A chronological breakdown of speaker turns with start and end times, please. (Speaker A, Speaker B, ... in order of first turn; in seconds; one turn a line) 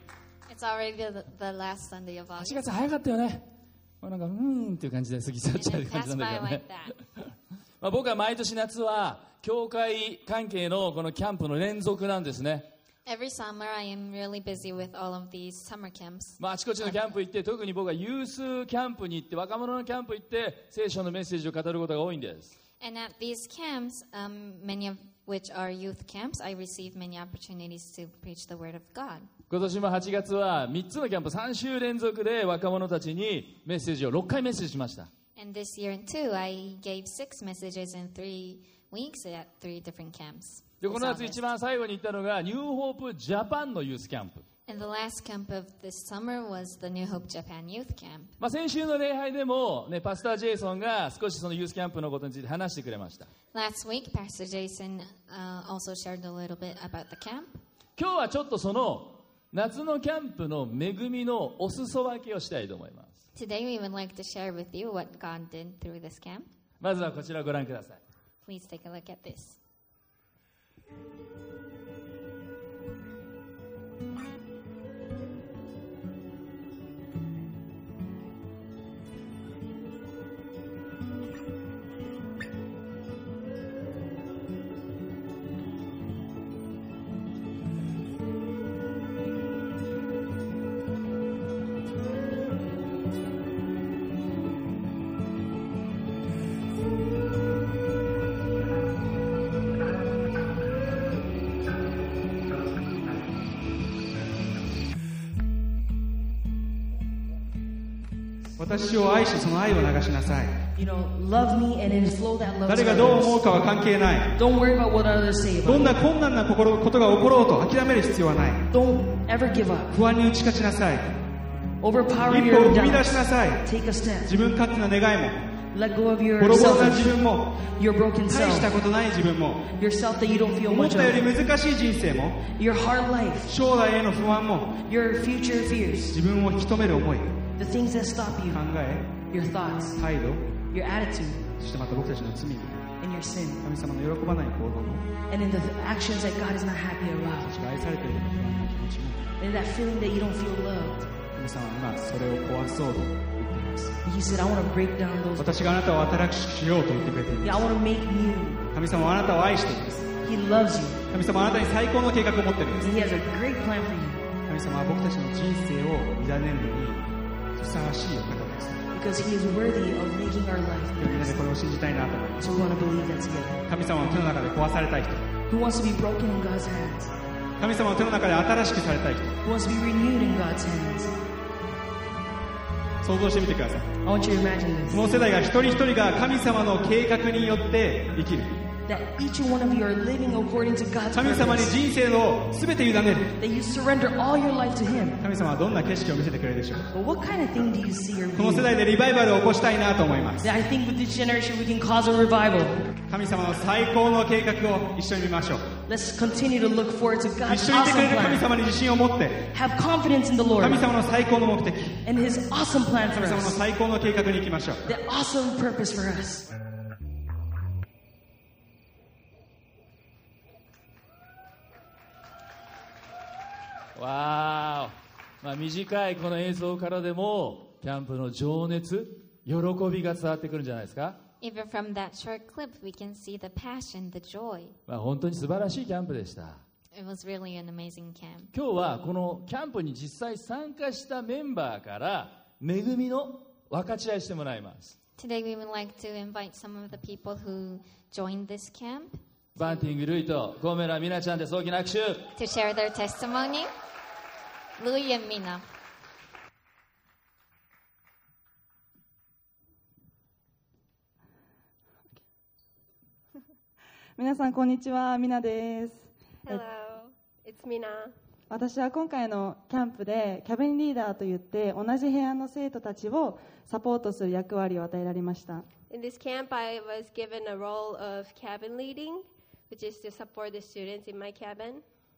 Speaker A: 0.5-2.6
Speaker B: 2.4-3.5
Speaker B: 4.0-7.3
Speaker A: 5.5-7.0
Speaker B: 7.8-12.7
Speaker A: 13.1-17.0
Speaker B: 16.4-22.5
Speaker A: 22.8-29.3
Speaker B: 29.5-35.1
Speaker A: 35.4-41.5
Speaker B: 40.8-44.4
Speaker A: 44.7-48.3
Speaker B: 48.4-53.3
Speaker A: 53.5-57.6
Speaker B: 58.0-63.2
Speaker A: 63.3-66.5
Speaker B: 66.8-68.0
Speaker A: 68.4-69.6
Speaker C: 108.6-110.6
Speaker D: 110.7-113.4
Speaker C: 112.7-114.3
Speaker D: 114.3-116.0
Speaker C: 115.6-118.7
Speaker D: 118.7-120.0
Speaker C: 119.9-121.1
Speaker D: 121.8-124.4
Speaker C: 122.2-123.7
Speaker C: 124.2-125.6
Speaker D: 125.7-128.7
Speaker C: 126.4-127.5
Speaker C: 128.3-129.7
Speaker D: 129.7-131.3
Speaker C: 130.7-132.5
Speaker D: 132.4-133.5
Speaker C: 133.5-134.8
Speaker D: 134.8-136.2
Speaker C: 136.1-137.5
Speaker D: 137.5-138.7
Speaker C: 138.5-139.2
Speaker D: 139.2-140.0
Speaker C: 140.0-140.6
Speaker D: 140.6-141.5
Speaker C: 141.5-142.9
Speaker D: 143.0-143.6
Speaker C: 143.6-145.1
Speaker D: 145.3-147.6
Speaker C: 147.4-149.3
Speaker D: 149.4-151.1
Speaker C: 151.3-154.0
Speaker D: 154.0-155.8
Speaker C: 155.3-157.7
Speaker D: 157.4-158.7
Speaker C: 158.7-160.2
Speaker D: 160.2-161.0
Speaker C: 161.1-162.9
Speaker D: 162.8-164.2
Speaker C: 164.5-168.8
Speaker D: 168.9-171.4
Speaker C: 171.0-172.5
Speaker D: 172.4-173.6
Speaker C: 173.7-175.3
Speaker D: 175.5-177.1
Speaker C: 177.6-179.4
Speaker D: 179.4-181.1
Speaker C: 183.0-184.0
Speaker D: 184.0-185.3
Speaker C: 184.9-188.6
Speaker D: 188.9-191.8
Speaker C: 191.1-193.3
Speaker D: 193.3-195.2
Speaker C: 195.2-196.8
Speaker D: 196.9-198.7
Speaker C: 198.3-200.5
Speaker D: 200.4-202.9
Speaker C: 203.1-205.8
Speaker D: 205.8-208.5
Speaker C: 207.4-209.4
Speaker D: 209.4-210.9
Speaker C: 210.6-212.0
Speaker D: 212.0-213.6
Speaker C: 213.1-214.8
Speaker D: 214.8-216.5
Speaker B: 223.9-231.2
Speaker A: 231.4-234.8
Speaker B: 234.9-236.6
Speaker A: 236.9-238.5
Speaker B: 238.5-244.9
Speaker A: 245.2-249.9
Speaker B: 249.6-252.3
Speaker A: 252.3-253.7
Speaker A: 254.8-255.6
Speaker E: 264.2-266.6
Speaker F: 266.4-268.1
Speaker E: 268.5-275.7
Speaker F: 275.9-281.8